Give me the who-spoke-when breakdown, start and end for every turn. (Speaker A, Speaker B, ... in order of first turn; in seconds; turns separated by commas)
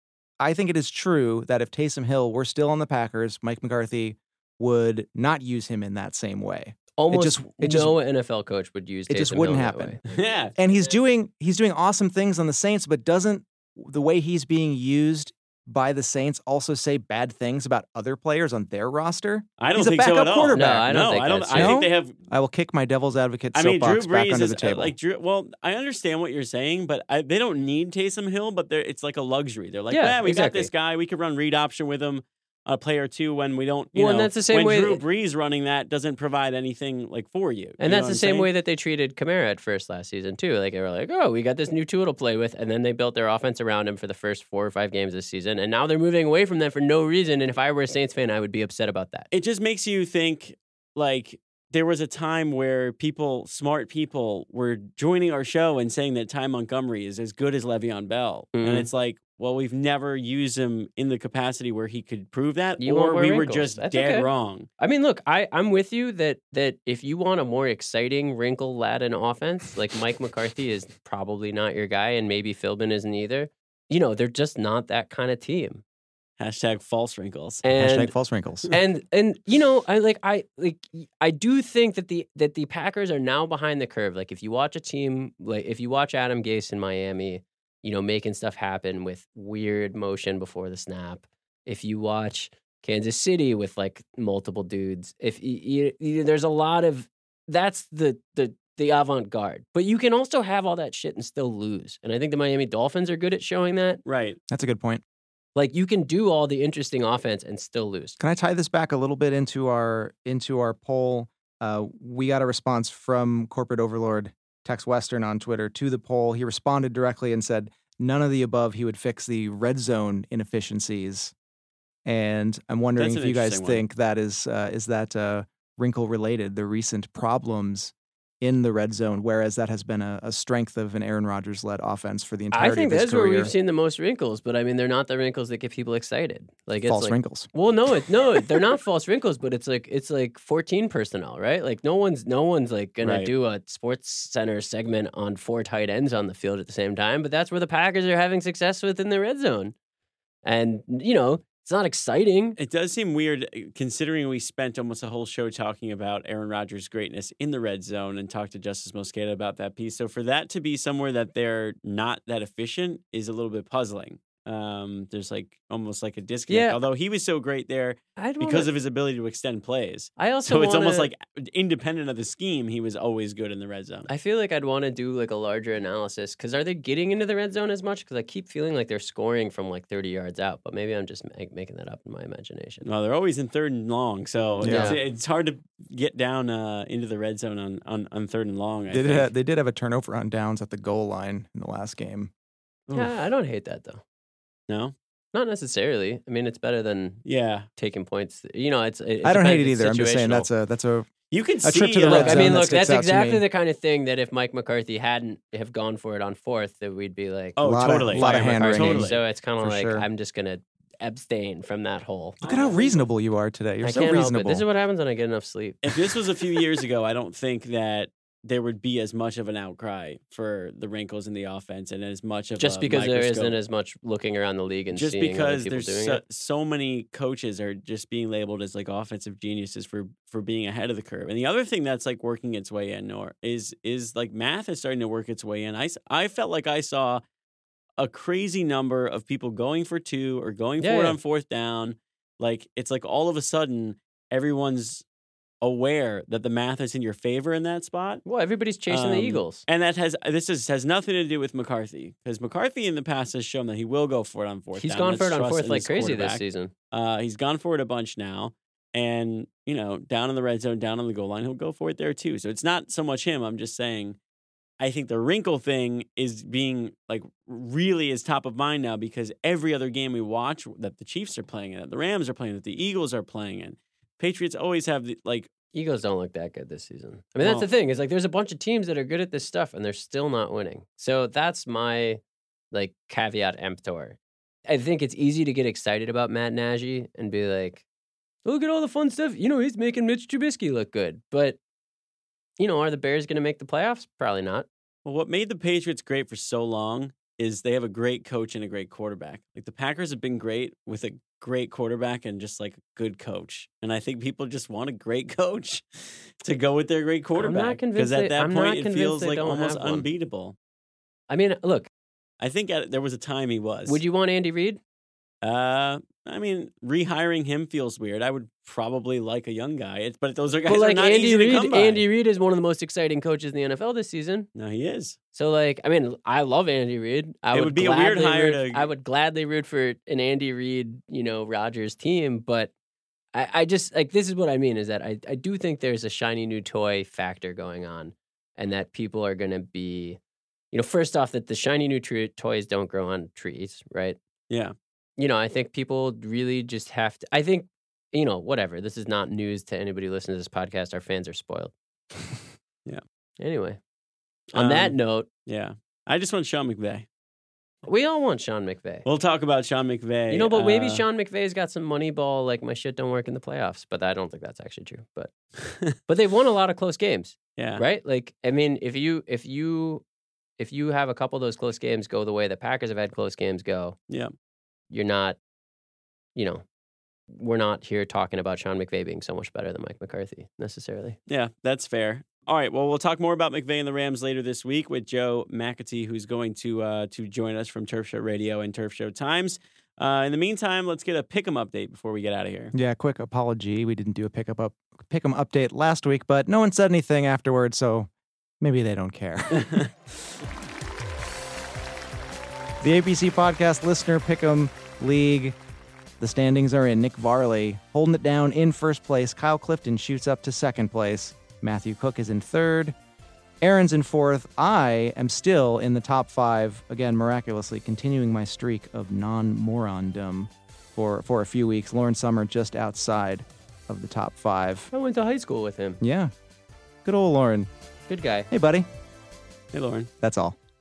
Speaker A: 0.4-8.0, Speaker B: 7.0-11.0, Speaker A: 9.1-10.0, Speaker C: 10.1-10.5, Speaker A: 10.6-20.9, Speaker C: 19.6-22.2, Speaker B: 20.5-21.8, Speaker A: 21.5-24.9, Speaker C: 23.5-38.5, Speaker B: 29.9-30.7, Speaker B: 33.9-35.0, Speaker B: 37.8-49.3, Speaker C: 49.3-64.7, Speaker B: 58.5-58.9, Speaker B: 62.8-64.3, Speaker B: 64.8-75.8, Speaker C: 76.4-77.6, Speaker B: 77.6-78.1, Speaker A: 77.8-78.7, Speaker B: 78.7-104.0, Speaker C: 104.0-104.4, Speaker A: 104.5-105.0, Speaker B: 105.5-108.2, Speaker A: 108.2-121.3, Speaker A: 122.1-133.5, Speaker C: 123.0-123.8, Speaker B: 132.5-149.7, Speaker A: 136.8-137.5, Speaker C: 143.0-143.3, Speaker B: 150.4-152.6, Speaker C: 152.6-174.1, Speaker B: 166.5-166.8, Speaker B: 168.2-168.7, Speaker B: 170.2-171.1, Speaker B: 174.1-182.9, Speaker C: 182.8-189.3, Speaker A: 184.6-185.0, Speaker B: 184.6-185.0, Speaker A: 188.9-192.3, Speaker C: 192.9-193.1, Speaker B: 192.9-194.0, Speaker C: 194.7-194.9, Speaker B: 195.3-197.2, Speaker C: 197.2-197.7, Speaker B: 197.8-200.5, Speaker A: 199.2-201.1, Speaker C: 201.3-202.7, Speaker A: 201.6-203.4, Speaker B: 202.1-212.4, Speaker C: 207.6-209.2, Speaker A: 207.6-210.1, Speaker C: 212.4-213.1, Speaker A: 212.4-214.7, Speaker B: 213.8-215.9, Speaker C: 215.8-223.6, Speaker B: 222.6-226.2, Speaker C: 224.9-237.2, Speaker C: 238.0-245.0, Speaker B: 240.8-241.2, Speaker C: 245.6-248.2, Speaker B: 248.2-249.7, Speaker C: 248.9-264.2, Speaker B: 254.8-256.7, Speaker C: 264.8-275.5, Speaker B: 275.7-282.2, Speaker C: 277.4-277.7, Speaker B: 282.7-287.8, Speaker B: 288.4-291.6, Speaker B: 292.6-294.7, Speaker C: 295.1-310.6, Speaker B: 307.4-310.1, Speaker B: 311.3-311.9, Speaker C: 312.4-314.0, Speaker B: 313.9-314.8, Speaker C: 315.4-322.0, Speaker B: 320.7-324.5, Speaker C: 324.6-325.2, Speaker B: 325.3-332.7, Speaker C: 327.5-328.9, Speaker B: 333.3-340.2, Speaker B: 340.7-344.2, Speaker B: 345.2-351.7, Speaker B: 353.4-353.8, Speaker C: 354.5-354.9, Speaker B: 354.5-355.3, Speaker C: 355.5-357.1, Speaker B: 357.9-359.1, Speaker C: 359.1-361.1, Speaker B: 360.3-365.3, Speaker C: 365.6-365.9, Speaker B: 366.1-370.0, Speaker C: 367.6-367.8, Speaker B: 370.6-374.0, Speaker B: 374.9-375.4, Speaker B: 376.4-376.6, Speaker B: 377.3-381.2, Speaker C: 381.3-392.7, Speaker A: 392.7-398.1, Speaker A: 398.6-399.9, Speaker A: 402.8-405.6, Speaker A: 406.2-412.9, Speaker A: 413.6-424.9, Speaker B: 424.9-426.0, Speaker A: 426.0-426.3, Speaker A: 427.0-427.7, Speaker B: 428.1-428.5, Speaker A: 428.5-428.9, Speaker C: 429.7-430.1, Speaker A: 430.2-430.6